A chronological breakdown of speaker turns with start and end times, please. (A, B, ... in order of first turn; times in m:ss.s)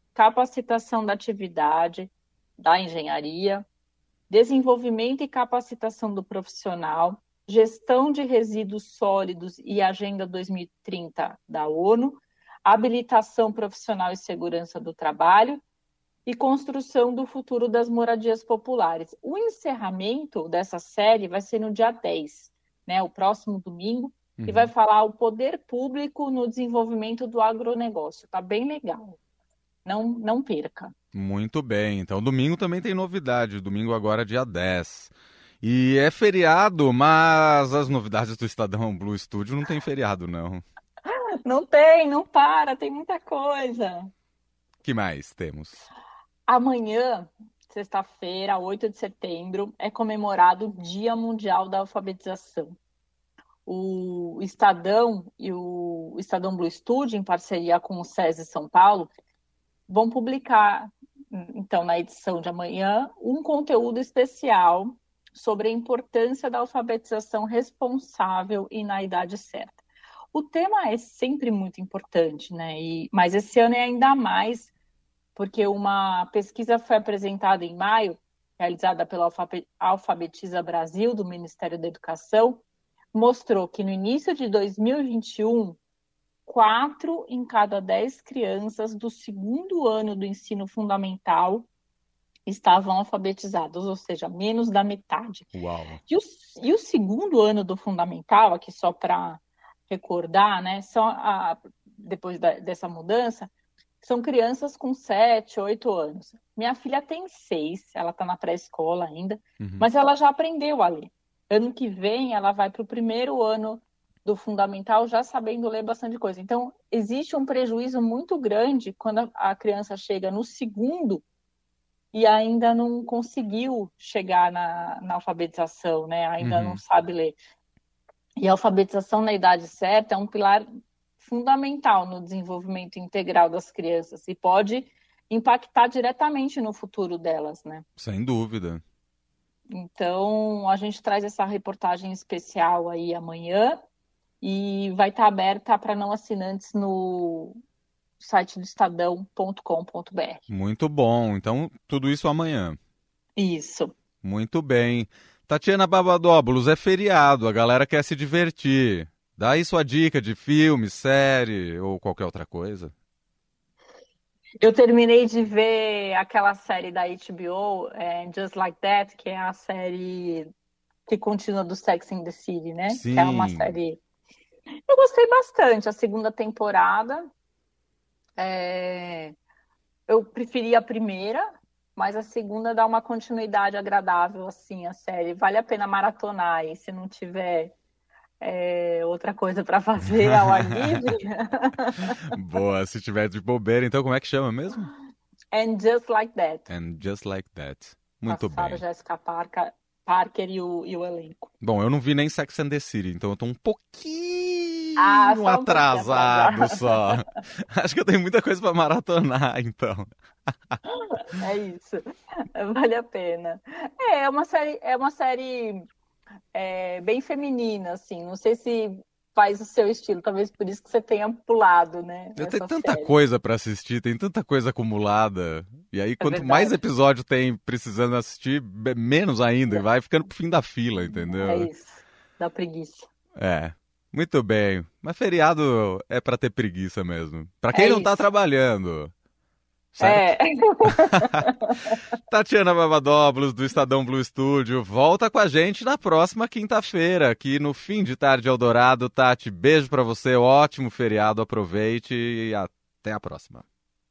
0:00.1-0:03.7 A
0:04.3-0:15.6 A
0:16.2-0:29.2 A
0:24.4-0:24.7 B
0:29.8-0:30.9 A
0:31.1-0:40.6 B
0:41.1-0:44.1 A
0:44.8-0:45.9 B
0:46.5-0:52.8 A
0:53.7-0:59.1 A
0:59.9-1:09.8 A
1:10.3-1:14.7 A
1:15.4-1:25.8 A
1:26.5-1:31.7 A
1:32.5-1:35.5 A
1:35.5-1:36.0 B
1:36.1-2:01.2 A
1:49.6-1:49.9 B
2:02.1-2:07.4 A
2:06.4-2:06.8 B
2:08.4-2:10.6 A
2:11.2-2:17.8 A
2:18.0-2:18.8 B
2:19.7-2:23.8 A
2:24.4-2:27.6 A
2:28.2-2:30.4 A
2:30.5-2:32.8 B
2:33.4-2:33.9 A
2:34.2-2:42.9 B
2:44.6-2:50.5 A
2:51.1-2:54.0 A
2:52.9-2:53.8 B
2:54.9-2:57.3 A
2:58.4-2:59.4 A
3:00.1-3:07.8 A
3:08.4-3:12.2 A
3:10.2-3:11.0 B
3:12.3-3:14.9 B
3:15.5-3:16.7 A
3:16.7-3:18.8 B
3:18.3-3:21.5 A
3:21.6-3:30.1 B
3:25.0-3:27.0 A
3:30.9-3:32.0 A
3:32.6-3:35.9 A
3:36.5-3:43.1 A
3:42.4-3:51.7 B
3:46.2-3:46.8 A
3:51.1-3:53.1 A
3:53.4-3:59.1 B
3:57.7-3:58.2 A
3:59.9-4:00.3 B
4:00.0-4:02.0 A
4:00.8-4:01.4 B
4:02.3-4:13.6 B